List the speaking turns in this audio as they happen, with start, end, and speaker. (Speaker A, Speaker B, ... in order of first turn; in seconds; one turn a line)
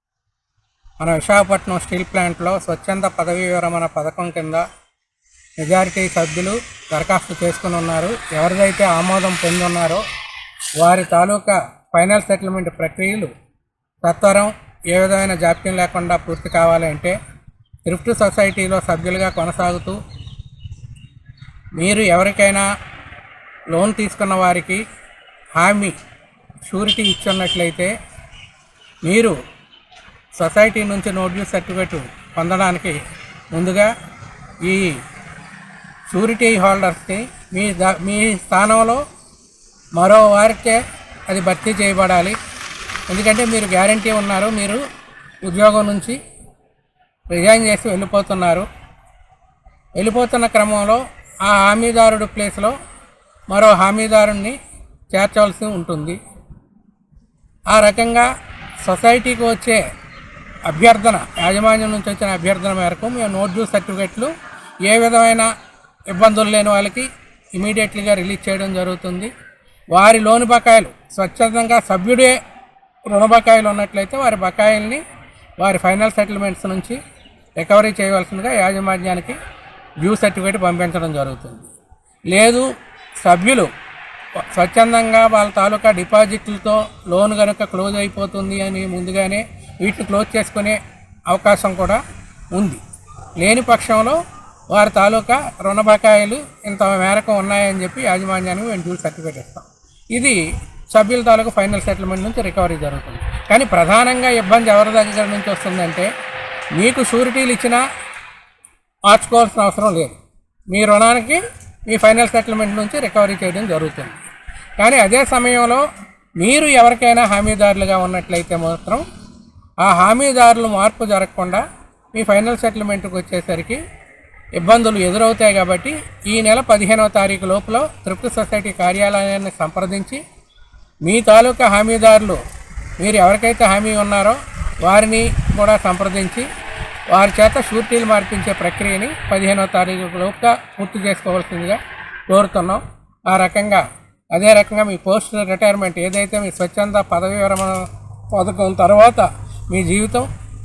Speaker A: 1.0-4.6
Speaker A: 5.6-10.0
Speaker A: 10.8-13.3
Speaker A: 14.0-17.2
Speaker A: 17.9-20.0
Speaker A: 21.8-22.6
Speaker A: 23.7-24.8
Speaker A: 25.6-26.0
Speaker A: 26.6-27.9
Speaker A: 29.0-29.4
Speaker A: 30.4-33.0
Speaker A: 33.5-33.9
Speaker A: 34.6-35.0
Speaker A: 36.1-39.0
Speaker A: 40.0-42.4
Speaker A: 43.1-44.8
Speaker A: 45.5-46.2
Speaker A: 47.3-48.7
Speaker A: 50.0-52.8
Speaker A: 53.5-54.6
Speaker A: 55.1-56.2
Speaker A: 57.7-58.3
Speaker A: 58.9-59.8
Speaker A: 60.7-64.3
Speaker A: 64.9-65.5
Speaker A: 66.1-69.3
Speaker A: 69.9-72.4
Speaker A: 73.1-75.0
Speaker A: 75.6-77.0
Speaker A: 77.6-79.4
Speaker A: 80.0-81.7
Speaker A: 82.3-82.7
Speaker A: 83.2-83.7
Speaker A: 84.5-90.8
Speaker A: 91.3-92.0
Speaker A: 92.5-92.8
Speaker A: 93.4-94.2
Speaker A: 94.7-100.4
Speaker A: 100.9-106.1
Speaker A: 106.8-107.8
Speaker A: 109.1-110.2
Speaker A: 110.7-114.2
Speaker A: 114.8-115.8
Speaker A: 116.4-119.0
Speaker A: 119.8-121.6
Speaker A: 122.1-123.8
Speaker A: 124.6-130.2
Speaker A: 131.1-132.4
Speaker A: 133.0-136.5
Speaker A: 137.1-150.3